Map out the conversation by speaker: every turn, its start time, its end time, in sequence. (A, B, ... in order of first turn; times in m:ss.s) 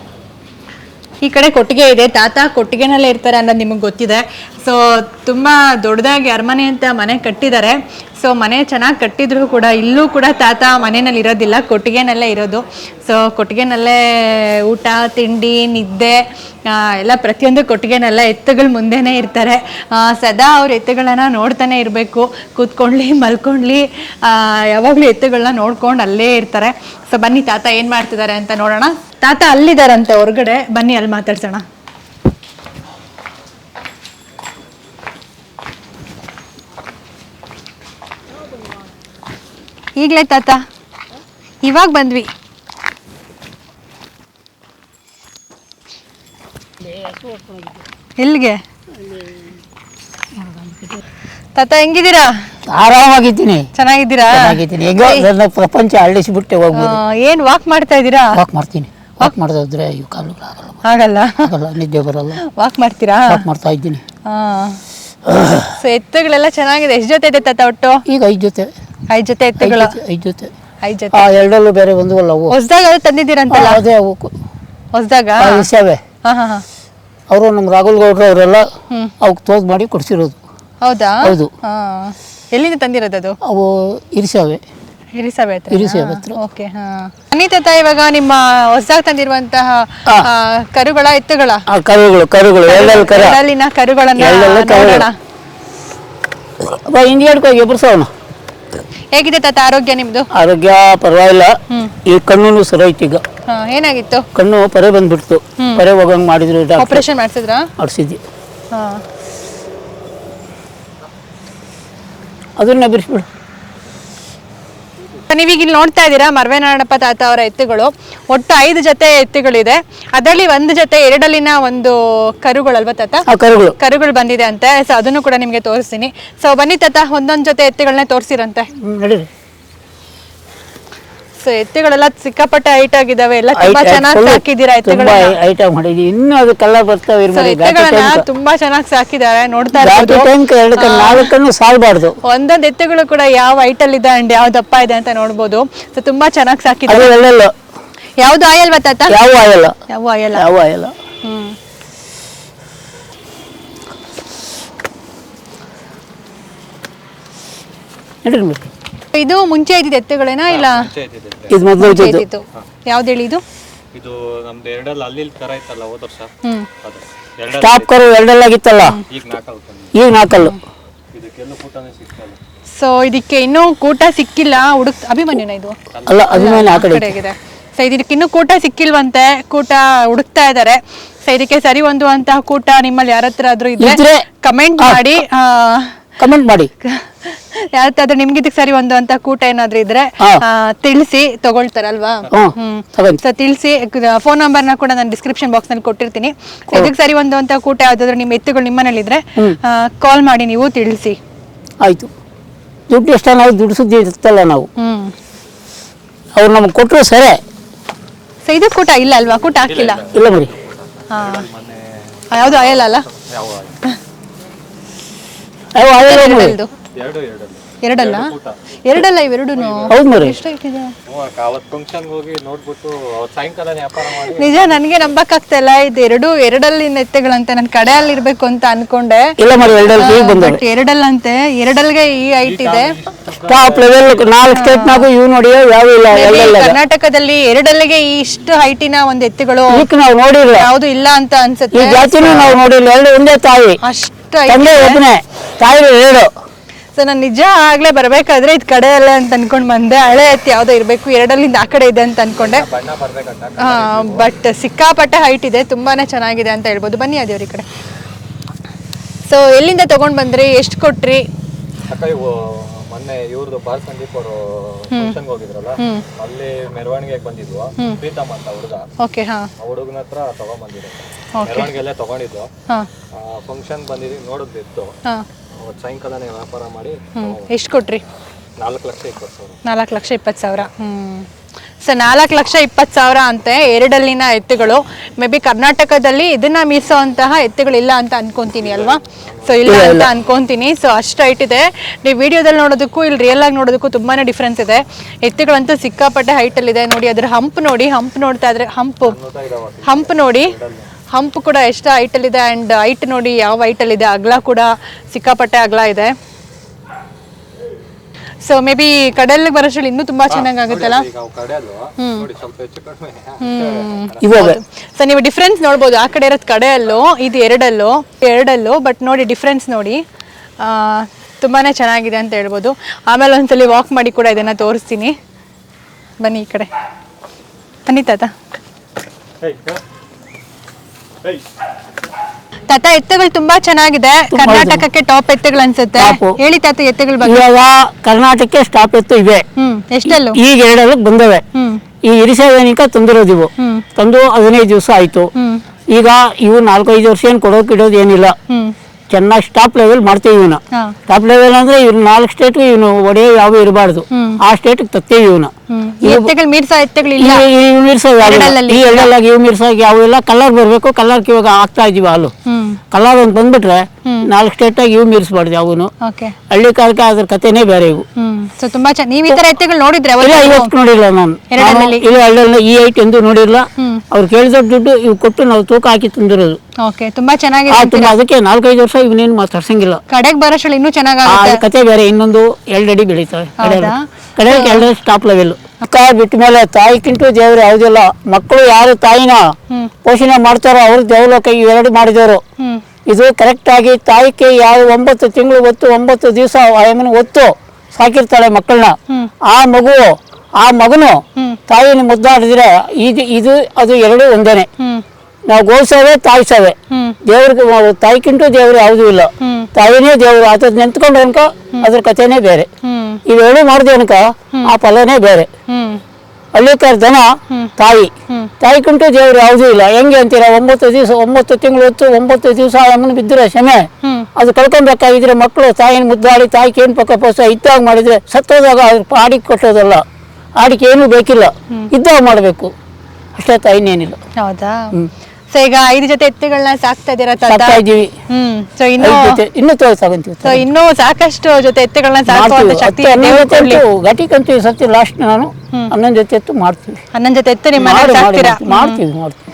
0:01.2-0:31.6 A
0:40.0-0:40.6 A
0:41.6-0:42.3 A
0:48.2-0:48.6 A
0:51.6-0:52.5 A
0:52.7-0:53.7 B
0:53.8-0:55.3 A
0:54.3-0:57.0 B
0:56.7-0:58.4 A
0:58.4-1:00.8 B
1:00.8-1:01.5 A
1:01.4-1:02.4 B
1:02.4-1:03.4 A
1:03.3-1:04.0 B
1:04.2-1:04.8 A
1:05.3-1:05.8 B
1:05.8-1:08.0 A
1:08.1-1:08.7 B
1:09.1-1:10.0 A
1:09.6-1:10.5 B
1:10.8-1:11.3 A
1:11.1-1:12.6 B
1:12.5-1:13.8 A
1:13.5-1:14.3 B
1:14.9-1:15.7 A
1:15.4-1:16.0 B
1:16.2-1:16.6 A
1:17.3-1:18.7 B
1:19.2-1:20.4 B
1:20.8-1:23.4 A
1:21.2-1:21.5 B
1:23.4-1:24.6 B
1:25.2-1:31.6 A
1:25.7-1:26.4 B
1:31.7-1:33.4 B
1:32.7-1:35.2 A
1:34.2-1:35.1 B
1:36.6-1:38.1 B
1:39.1-1:40.3 A
1:40.3-1:43.2 B
1:43.5-1:44.3 A
1:44.3-1:47.0 B
1:45.6-1:45.8 A
1:46.8-1:47.7 A
1:47.8-1:48.2 B
1:48.7-1:49.0 A
1:52.6-1:53.3 B
1:55.2-2:08.7 A
2:03.3-2:03.8 B
2:08.8-2:09.3 B
2:11.4-2:15.4 A
2:13.5-2:18.3 B
2:17.3-2:21.3 A
2:19.8-2:22.2 B
2:22.2-2:27.2 A
2:26.9-2:27.5 B
2:28.2-2:29.2 A
2:29.1-2:29.8 B
2:29.9-2:30.5 A
2:30.4-2:30.9 B
2:31.2-2:31.6 A
2:38.2-2:38.7 B
2:39.1-2:40.9 A
2:40.5-2:41.7 C
2:41.5-2:42.2 B
2:41.8-2:43.4 A
2:43.9-2:47.9 C
2:47.6-2:49.0 B
2:49.1-2:50.0 C
2:49.9-2:50.6 B
2:51.1-2:52.4 C
2:52.8-2:55.8 A
2:56.0-2:56.3 C
2:56.1-2:57.1 B
2:56.3-3:06.0 A
3:03.8-3:04.2 B
3:04.8-3:05.2 B
3:06.2-3:06.7 B
3:06.8-3:21.2 A
3:12.3-3:13.2 B
3:21.8-3:22.1 B
3:22.9-3:24.7 B
3:24.8-3:25.1 A
3:26.4-3:27.4 B
3:28.4-3:30.0 A
3:29.6-3:33.8 C
3:30.1-3:30.5 B
3:31.1-3:31.4 A
3:32.3-3:33.1 A
3:35.8-3:36.6 B
3:36.0-3:36.7 A
3:37.0-3:38.6 C
3:37.8-3:38.3 A
3:38.8-3:41.0 A
3:39.6-3:40.0 C
3:39.9-3:40.4 B
3:41.1-3:45.2 C
3:44.2-3:49.3 A
3:49.4-3:50.6 B
3:49.6-3:50.0 C
3:50.0-3:53.0 A
3:52.4-3:54.3 C
3:53.5-3:56.8 B
3:54.5-3:55.1 A
3:56.1-3:59.9 A
3:59.7-4:00.7 B
4:00.6-4:02.6 A
4:01.7-4:03.8 B
4:03.8-4:05.0 A
4:04.5-4:06.3 B
4:07.0-4:12.7 A
4:12.4-4:14.3 C
4:13.6-4:17.6 A
4:19.3-4:21.3 A
4:21.9-4:28.9 C
4:24.9-4:25.2 A
4:25.8-4:26.0 A
4:29.0-4:29.5 A
4:29.6-4:32.5 C
4:31.3-4:31.7 A
4:33.1-4:35.0 C
4:35.6-4:37.5 C
4:37.2-4:38.0 A
4:38.6-4:39.6 C
4:39.6-4:41.3 A
4:41.8-4:59.2 A
4:48.6-4:49.9 C
4:49.7-4:50.1 B
4:59.0-5:00.9 C
4:59.8-5:00.5 A
5:01.1-5:06.2 A
5:08.4-5:11.1 A
5:10.3-5:14.3 C
5:12.0-5:12.3 A
5:13.4-5:20.0 A
5:14.2-5:14.6 B
5:20.6-5:25.2 A
5:26.2-5:26.7 A
5:27.9-5:28.3 A
5:29.4-5:29.8 C
5:32.7-5:37.4 A
5:34.3-5:34.9 B
5:36.0-5:36.4 B
5:37.2-5:39.5 B
5:39.6-5:40.4 A
5:40.1-5:41.4 B
5:41.6-5:41.8 A
5:42.0-5:45.3 B
5:43.6-5:43.8 A
5:45.4-5:45.6 A
5:45.9-5:48.4 B
5:48.5-5:48.8 A
5:49.1-5:55.5 B
5:54.1-5:54.4 A
5:55.7-5:57.5 A
5:56.0-5:56.3 B
5:57.2-6:02.3 B
5:58.2-5:59.1 A
6:02.5-6:02.8 A
6:02.9-6:05.9 B
6:06.0-6:06.4 A
6:06.5-6:08.0 B
6:08.2-6:10.7 A
6:10.2-6:16.6 B
6:11.5-6:12.1 A
6:13.8-6:14.0 A
6:16.8-6:18.1 A
6:17.7-6:20.0 B
6:20.1-6:21.6 A
6:21.3-6:29.5 B
6:23.6-6:24.9 A
6:30.0-6:32.4 B
6:32.6-6:32.8 A
6:33.1-6:44.7 B
6:44.8-6:45.0 A
6:45.5-6:52.7 B
6:46.9-6:47.2 A
6:49.4-6:49.7 A
6:52.8-6:53.2 A
6:53.3-6:55.5 B
6:55.7-6:56.0 A
6:56.5-7:10.0 B
7:04.0-7:04.3 A
7:10.6-7:12.7 B
7:13.4-7:14.2 B
7:14.4-7:14.9 A
7:15.5-7:19.4 A
7:17.4-7:18.1 B
7:19.0-7:20.6 B
7:20.4-7:23.8 A
7:22.3-7:27.0 B
7:27.1-7:29.0 A
7:27.8-7:29.4 B